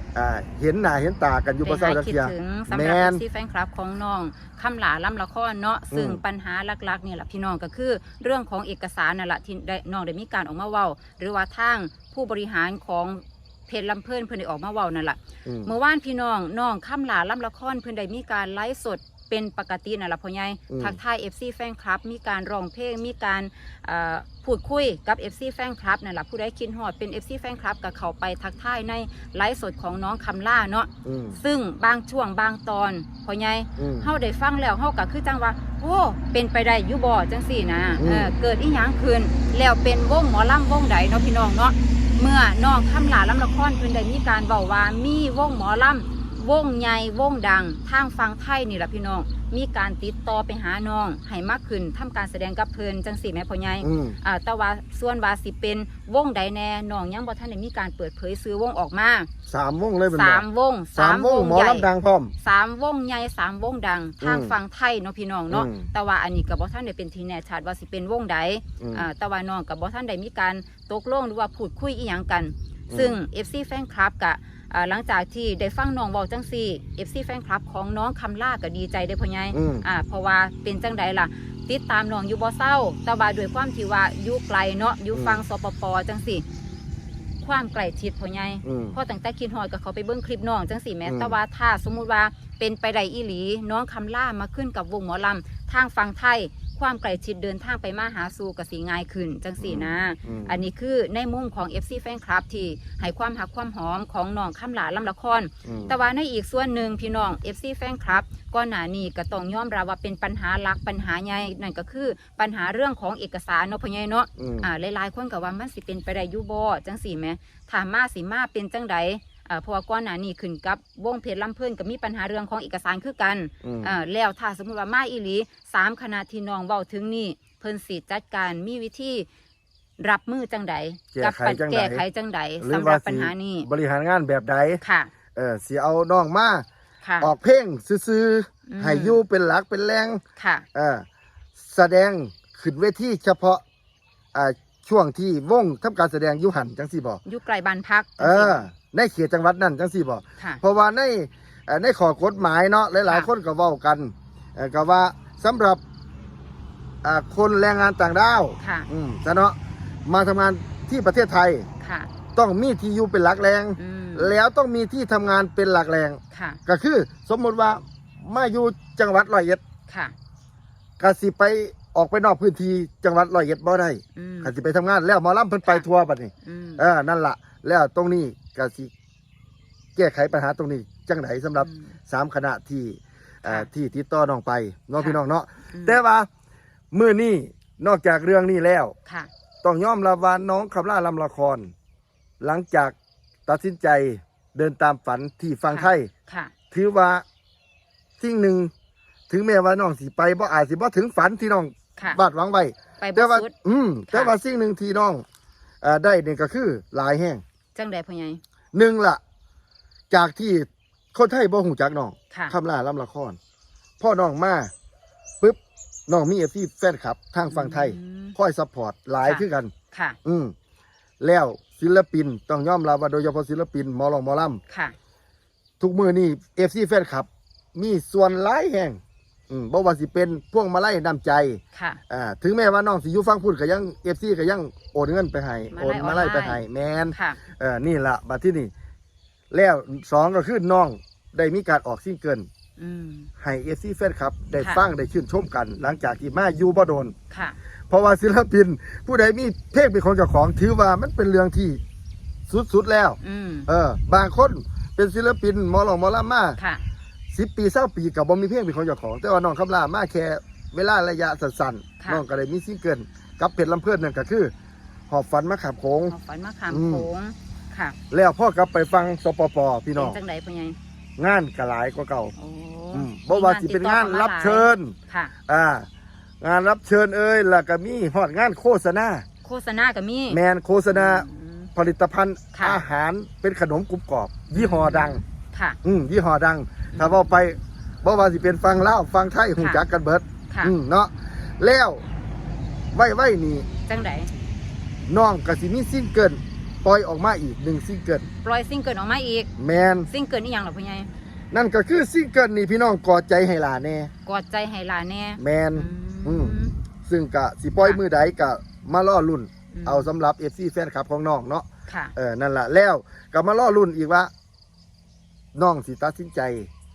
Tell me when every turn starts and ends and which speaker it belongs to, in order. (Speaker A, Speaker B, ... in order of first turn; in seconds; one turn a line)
Speaker A: 0.1-3.2
Speaker B: 1.6-59.3
Speaker A: 5.9-6.2
Speaker A: 15.4-15.7
Speaker A: 20.7-21.0
Speaker A: 31.0-31.4
Speaker A: 33.8-34.1
Speaker A: 38.0-38.3
Speaker A: 53.8-54.2
Speaker A: 59.5-62.3
Speaker B: 60.1-61.9
Speaker B: 62.4-86.4
Speaker A: 64.2-64.5
Speaker A: 65.5-65.9
Speaker A: 68.8-69.1
Speaker A: 72.9-73.2
Speaker A: 79.5-79.8
Speaker A: 85.1-85.4
Speaker B: 87.4-129.3
Speaker A: 88.6-89.0
Speaker A: 91.0-91.4
Speaker A: 99.6-100.6
Speaker A: 105.6-105.9
Speaker A: 114.4-114.7
Speaker A: 123.6-123.9
Speaker B: 130.0-133.7
Speaker A: 131.1-132.0
Speaker A: 132.6-134.8
Speaker B: 134.8-135.1
Speaker A: 135.3-136.7
Speaker B: 137.0-137.3
Speaker A: 137.2-140.2
Speaker B: 138.7-139.2
Speaker B: 140.3-140.7
Speaker A: 140.7-141.0
Speaker A: 141.6-143.6
Speaker A: 144.3-147.2
Speaker B: 147.2-148.7
Speaker A: 148.2-155.8
Speaker A: 157.0-161.7
Speaker B: 158.6-158.9
Speaker B: 161.8-162.1
Speaker A: 162.3-169.6
Speaker B: 163.8-164.3
Speaker B: 166.3-166.6
Speaker B: 169.9-170.1
Speaker A: 171.0-178.9
Speaker B: 174.2-174.5
Speaker B: 176.4-176.8
Speaker A: 179.9-186.3
Speaker B: 181.6-181.9
Speaker B: 185.7-186.0
Speaker A: 186.9-188.9
Speaker A: 189.6-191.7
Speaker A: 192.4-192.9
Speaker A: 193.4-196.1
Speaker B: 195.7-196.5
Speaker A: 196.7-197.2
Speaker A: 198.2-198.7
Speaker A: 199.3-205.2
Speaker B: 203.0-203.5
Speaker B: 204.1-204.3
Speaker A: 205.8-207.4
Speaker B: 207.7-208.4
Speaker A: 208.7-209.2
Speaker A: 210.1-213.4
Speaker B: 212.3-212.6
Speaker A: 214.0-214.7
Speaker A: 215.4-219.7
Speaker B: 217.5-218.3
Speaker B: 219.2-220.2
Speaker A: 220.2-220.5
Speaker A: 221.2-224.6
Speaker B: 224.7-224.9
Speaker A: 225.8-238.7
Speaker B: 231.7-232.0
Speaker B: 235.7-237.4
Speaker A: 239.5-242.5
Speaker B: 242.8-243.3
Speaker A: 243.4-247.1
Speaker B: 244.6-244.8
Speaker B: 247.3-247.6
Speaker A: 247.9-251.8
Speaker A: 252.5-256.6
Speaker B: 253.2-253.7
Speaker B: 256.6-256.8
Speaker A: 257.3-264.5
Speaker A: 265.1-266.1
Speaker B: 266.1-268.0
Speaker A: 266.7-267.1
Speaker A: 268.1-270.2
Speaker B: 269.9-270.8
Speaker A: 271.2-272.3
Speaker B: 272.4-275.3
Speaker A: 272.9-274.9
Speaker A: 275.5-275.9
Speaker A: 276.4-279.2
Speaker B: 279.4-280.4
Speaker A: 280.3-285.2
Speaker B: 280.9-281.7
Speaker B: 282.5-282.8
Speaker B: 284.5-285.8
Speaker A: 285.8-292.0
Speaker B: 286.9-287.2
Speaker B: 289.6-289.8
Speaker A: 292.9-293.6
Speaker B: 293.9-294.3
Speaker A: 295.1-298.3
Speaker B: 298.4-299.5
Speaker A: 299.6-300.1
Speaker B: 300.1-301.1
Speaker A: 301.5-304.1
Speaker B: 304.2-306.7
Speaker A: 305.4-314.3
Speaker B: 309.7-310.1
Speaker B: 311.9-312.1
Speaker A: 315.5-316.7